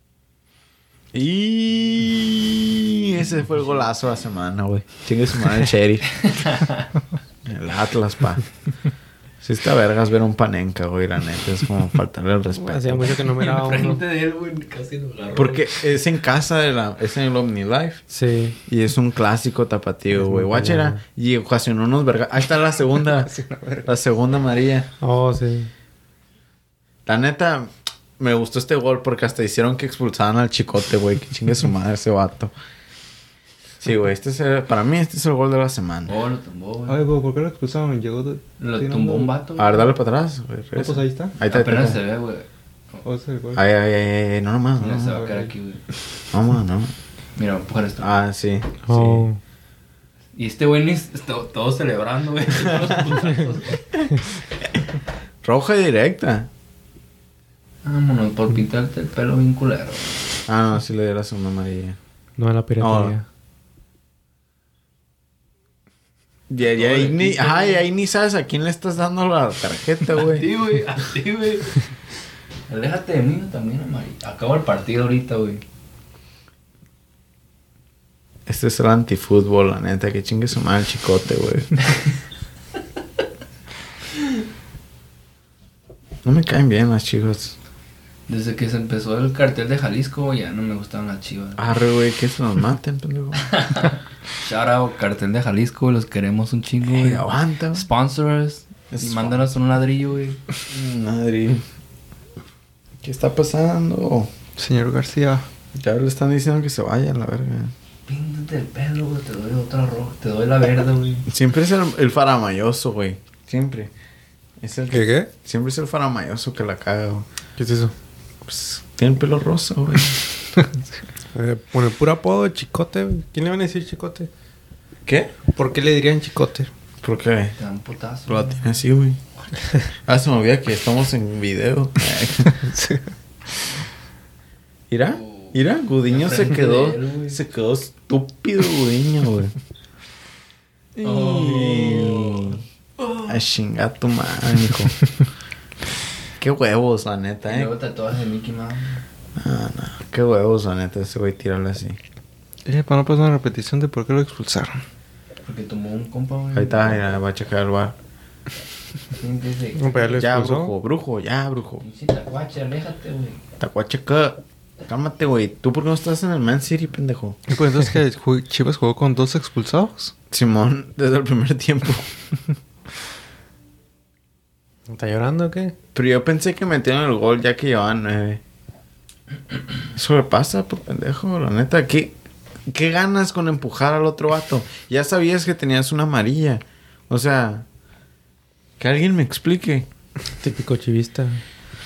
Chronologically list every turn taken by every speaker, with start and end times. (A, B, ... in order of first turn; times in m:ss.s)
0:01.1-0:06.1 A
0:06.1-0:06.9 B
0:07.4-0:08.4 A
0:09.4-0:13.3 A
0:12.5-0:14.0 C
0:13.3-0:15.8 B
0:15.3-0:18.0 A
0:18.1-0:18.6 C
0:18.7-0:23.3 A
0:20.1-0:21.0 C
0:23.1-0:23.9 D
0:23.8-0:24.9 A
0:25.0-0:25.7 C
0:27.0-0:32.5 A
0:33.8-0:36.2 A
0:36.1-0:37.0 B
0:36.9-0:39.3 D
0:38.6-0:39.9 B
0:39.6-0:42.0 A
0:40.7-0:41.3 D
0:41.4-0:43.0 B
0:43.0-0:43.6 D
0:43.5-0:45.2 A
0:44.8-0:45.8 B
0:45.0-0:45.5 D
0:46.3-0:46.9 A
0:47.4-0:48.1 B
0:48.0-0:49.3 A
0:48.9-0:49.4 C
0:50.3-0:53.9 B
0:55.4-0:56.5 A
0:57.8-1:00.1 B
1:00.5-1:02.0 A
1:02.4-1:03.2 C
1:02.8-1:03.2 A
1:06.5-1:10.5 A
1:06.6-1:07.8 B
1:10.1-1:11.9 B
1:12.7-1:15.6 B
1:18.4-1:21.8 A
1:26.2-1:27.6 A
1:28.3-1:31.7 B
1:31.6-1:33.6 A
1:33.4-1:40.4 B
1:36.8-1:37.9 A
1:38.9-1:39.5 A
1:40.7-1:41.6 A
1:43.0-1:44.3 A
1:44.6-1:45.4 D
1:45.7-1:47.7 A
1:48.1-1:51.2 B
1:51.3-1:53.9 A
1:54.6-1:57.3 A
1:54.9-1:55.3 C
1:57.6-1:57.9 C
1:58.4-2:00.2 A
2:01.3-2:04.3 C
2:05.0-2:05.3 A
2:05.5-2:06.7 C
2:07.0-2:07.6 A
2:07.6-2:08.6 B
2:08.3-2:09.2 A
2:10.0-2:12.7 A
2:12.6-2:13.1 D
2:14.9-2:19.5 A
2:15.1-2:17.4 B
2:21.0-2:23.4 B
2:21.0-2:22.6 A
2:23.2-2:25.0 A
2:26.4-2:27.7 A
2:27.4-2:29.0 B
2:29.4-2:32.0 A
2:32.6-2:34.8 D
2:35.4-2:37.0 B
2:36.5-2:38.0 A
2:39.2-2:40.2 B
2:39.8-2:40.7 C
2:40.2-2:41.8 A
2:41.8-2:43.4 B
2:43.6-2:47.4 A
2:47.5-2:50.1 D
2:50.3-2:52.1 A
2:54.9-2:55.7 C
2:55.9-2:58.4 A
2:59.9-3:02.1 A
3:02.7-3:07.6 A
3:08.8-3:09.9 A
3:10.4-3:11.4 C